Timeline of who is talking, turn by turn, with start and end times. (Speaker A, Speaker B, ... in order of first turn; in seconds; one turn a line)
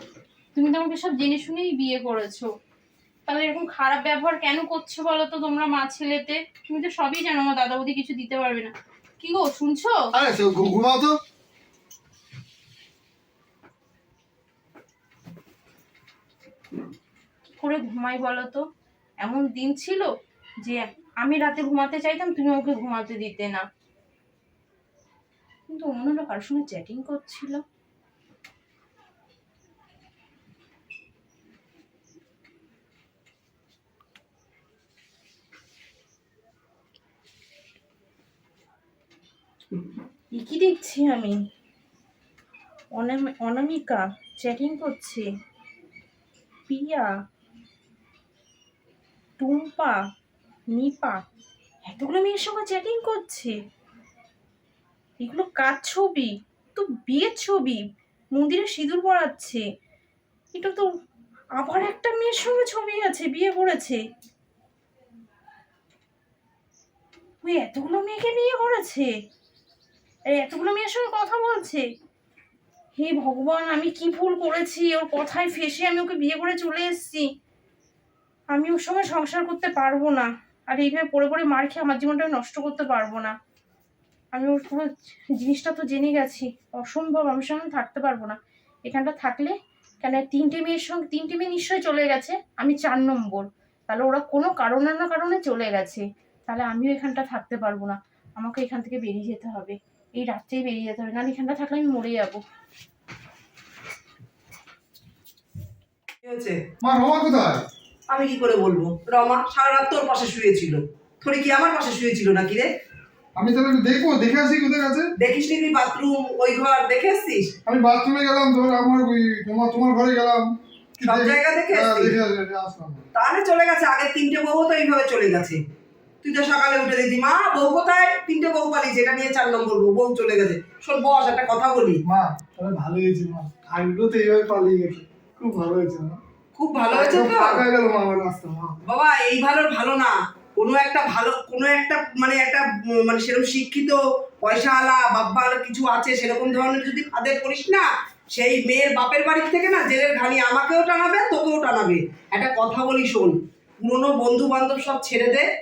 Speaker A: 0.5-2.5
Speaker A: 3.3-9.9
Speaker B: 10.1-11.2
Speaker A: 17.5-18.6
Speaker A: 19.2-20.1
Speaker A: 20.6-23.6
Speaker A: 25.7-27.6
Speaker A: 40.4-41.4
Speaker A: 43.0-45.3
Speaker A: 46.7-47.1
Speaker A: 49.4-50.0
Speaker A: 50.7-51.2
Speaker A: 51.9-53.5
Speaker A: 55.2-57.8
Speaker A: 58.3-59.6
Speaker A: 60.5-60.9
Speaker A: 61.6-64.0
Speaker A: 67.4-69.1
Speaker A: 70.3-71.8
Speaker A: 73.0-77.2
Speaker A: 78.5-83.3
Speaker A: 84.3-102.4
Speaker C: 106.2-106.6
Speaker B: 106.8-107.6
Speaker C: 108.1-112.7
Speaker B: 113.3-115.1
Speaker C: 115.2-117.5
Speaker B: 117.7-123.0
Speaker C: 121.0-122.2
Speaker C: 123.1-125.6
Speaker C: 126.2-132.0
Speaker B: 132.1-136.2
Speaker C: 136.6-137.6
Speaker B: 136.9-138.8
Speaker C: 138.9-155.4